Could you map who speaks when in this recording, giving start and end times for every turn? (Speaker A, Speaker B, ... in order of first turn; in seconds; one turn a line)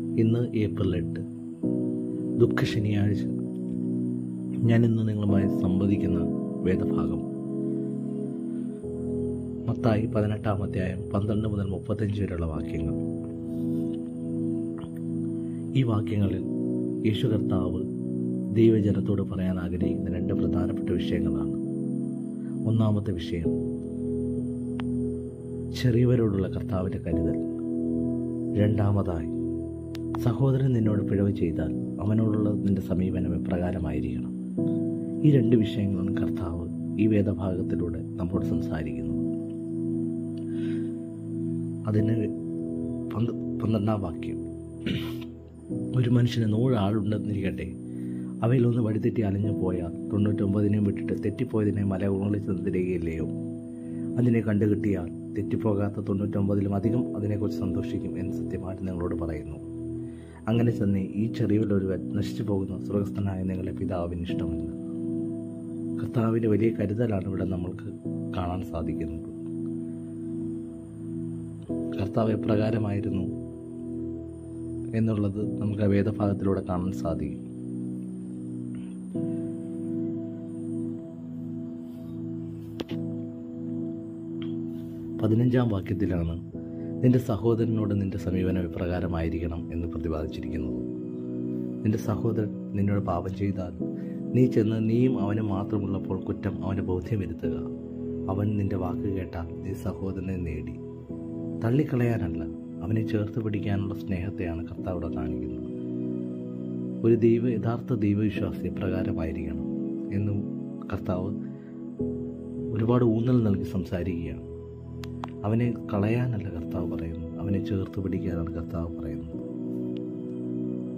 Speaker A: 0.2-1.2
Speaker A: 2.4-3.4
Speaker A: 4.7-7.2
Speaker A: 9.7-13.0
Speaker A: 15.8-16.4
Speaker A: 17.1-17.8
Speaker A: 18.6-21.6
Speaker A: 22.7-23.6
Speaker A: 25.7-27.5
Speaker A: 28.6-29.3
Speaker A: 30.2-34.3
Speaker A: 35.2-39.3
Speaker A: 41.9-42.3
Speaker A: 43.1-45.1
Speaker A: 46.0-47.7
Speaker A: 48.4-53.3
Speaker A: 54.2-59.6
Speaker A: 60.5-64.8
Speaker A: 66.0-69.3
Speaker A: 72.0-73.3
Speaker A: 74.9-77.4
Speaker A: 85.2-86.4
Speaker A: 87.0-90.9
Speaker A: 91.8-93.8
Speaker A: 94.3-97.7
Speaker A: 98.3-100.8
Speaker A: 101.6-105.7
Speaker A: 107.0-111.3
Speaker A: 112.7-114.4
Speaker A: 115.4-119.4